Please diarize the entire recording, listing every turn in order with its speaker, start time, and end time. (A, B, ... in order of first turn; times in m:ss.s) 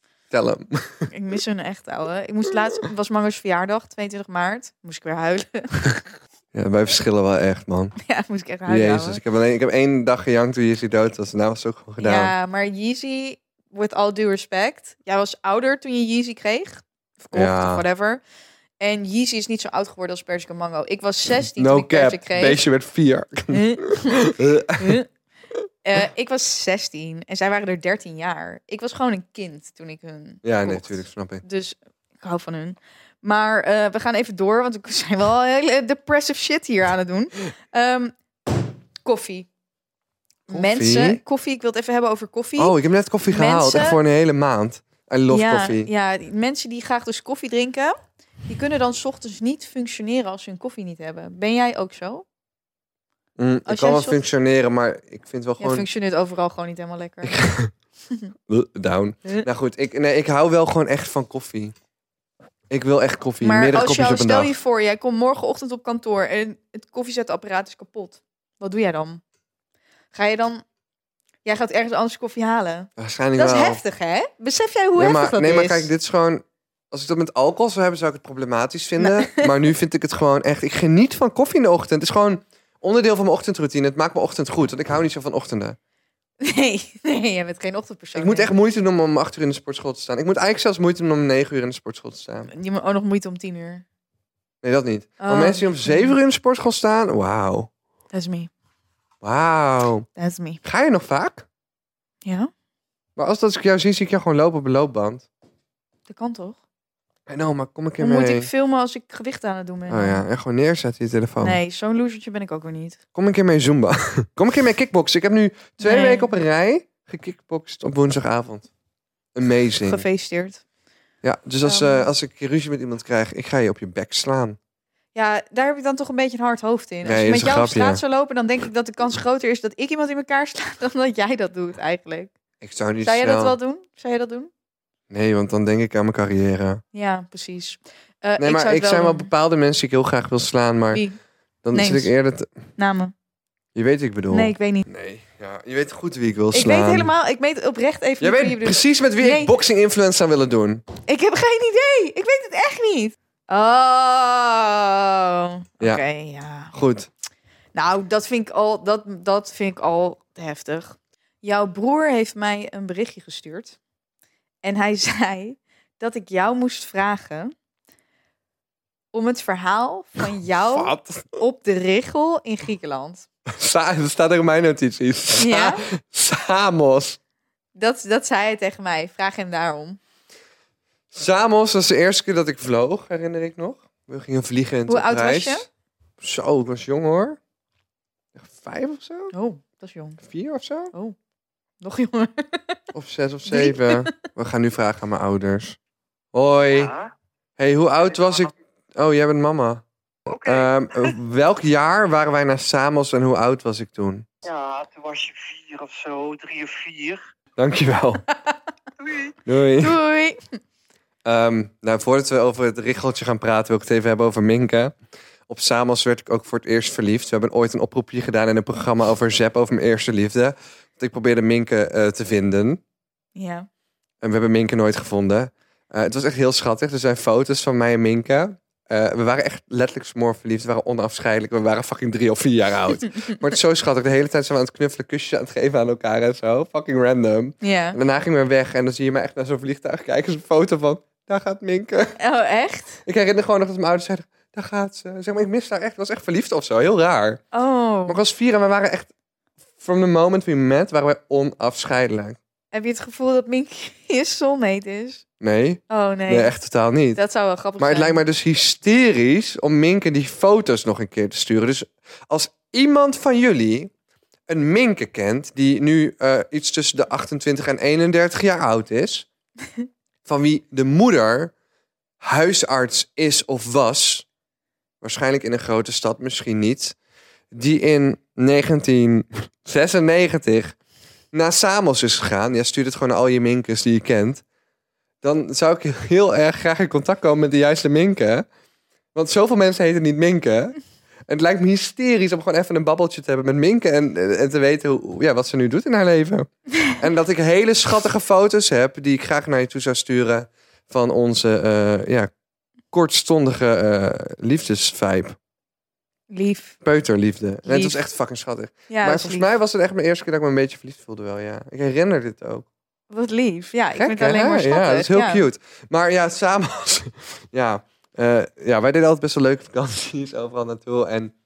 0:00.3-0:01.1 A
0:01.1-0:06.0 B
0:06.5-0:08.0 A
0:08.0-0:09.2 B
0:08.7-0:12.3 A
0:12.0-0:18.2 B
0:17.3-0:17.8 A
0:18.8-0:22.6 B
0:21.6-0:25.0 A
0:23.5-0:24.3 B
0:24.8-0:25.1 B
0:25.8-0:38.2 B
0:30.4-0:31.4 A
0:39.0-0:39.5 B
0:40.5-0:42.8 B
0:40.5-0:41.2 A
0:42.6-0:45.9 A
0:43.3-0:44.0 B
0:45.3-0:52.2 B
0:53.4-0:55.9 A
0:53.7-0:54.2 B
0:55.6-0:57.4 B
0:57.2-0:57.7 A
0:58.5-1:01.8 A
1:02.7-1:04.5 A
1:03.4-1:09.2 B
1:10.1-1:10.6 B
1:11.4-1:15.9 B
1:13.0-1:13.8 A
1:15.0-1:25.8 A
1:19.0-1:19.5 B
1:26.4-1:28.5 B
1:28.2-1:32.5 A
1:32.5-1:33.8 B
1:34.6-1:37.7 A
1:35.2-1:36.2 B
1:38.1-1:38.5 B
1:39.2-1:40.1 A
1:40.2-1:40.6 B
1:40.6-1:41.5 A
1:42.2-1:42.5 B
1:43.2-1:45.3 A
1:46.1-1:46.6 B
1:47.3-1:48.5 A
1:48.0-1:50.3 B
1:49.9-1:51.6 A
1:51.4-1:53.0 B
1:53.2-1:58.7 A
1:55.8-1:56.4 B
1:59.4-2:00.0 A
1:59.8-2:00.6 B
2:01.2-2:04.6 A
2:01.6-2:02.1 B
2:05.2-2:12.3 B
2:07.0-2:08.0 A
2:12.6-2:13.6 A
2:13.0-2:14.5 B
2:15.1-2:16.8 A
2:16.9-2:19.3 B
2:18.4-2:21.0 A
2:21.6-2:22.5 A
2:21.7-2:22.1 B
2:22.8-2:23.1 B
2:23.8-2:27.1 A
2:24.3-2:24.9 B
2:26.5-2:29.5 B
2:28.2-2:30.8 A
2:31.1-2:36.7 B
2:36.7-2:37.1 A
2:37.7-2:43.8 B
2:44.6-2:47.5 B
2:49.1-2:53.3 B
2:50.6-2:51.4 A
2:53.5-2:57.2 A
2:55.4-2:55.8 B
2:57.8-3:00.0 B
3:01.1-3:05.7 A
3:04.9-3:05.7 B
3:06.2-3:07.4 A
3:08.4-3:09.3 A
3:09.3-3:10.2 B
3:10.2-3:10.9 A
3:11.8-3:12.8 B
3:12.9-3:15.8 A
3:13.5-3:14.1 B
3:16.3-3:16.9 A
3:16.7-3:17.1 C
3:17.6-3:19.8 A
3:20.3-3:21.1 C
3:20.4-3:24.3 A
3:24.4-3:27.2 C
3:27.6-3:28.2 A
3:29.0-3:29.3 C
3:29.5-3:30.0 A
3:29.8-3:30.4 B
3:31.2-3:35.0 A
3:35.5-3:42.8 A
3:43.4-3:43.7 B
3:44.2-4:02.2 A
3:57.6-3:58.0 B
4:02.2-4:03.0 B
4:03.1-4:07.4 A
4:07.5-4:08.2 B
4:08.1-4:09.1 A
4:09.8-4:12.4 A
4:12.7-4:15.2 B
4:15.4-4:17.2 A
4:15.9-4:16.5 B
4:17.2-4:18.2 B
4:17.8-4:23.9 A
4:24.5-4:29.3 A
4:30.3-4:31.5 A
4:32.2-4:34.3 A
4:35.0-4:37.0 A
4:37.5-4:40.8 A
4:41.3-4:44.4 A
4:45.2-4:48.5 A
4:49.2-4:50.8 A
4:51.3-5:02.3 A
5:02.9-5:05.4 A
5:06.3-5:06.8 B
5:06.8-5:12.7 A
5:07.6-5:08.0 B
5:08.9-5:09.5 B
5:13.1-5:15.4 B
5:14.0-5:21.3 A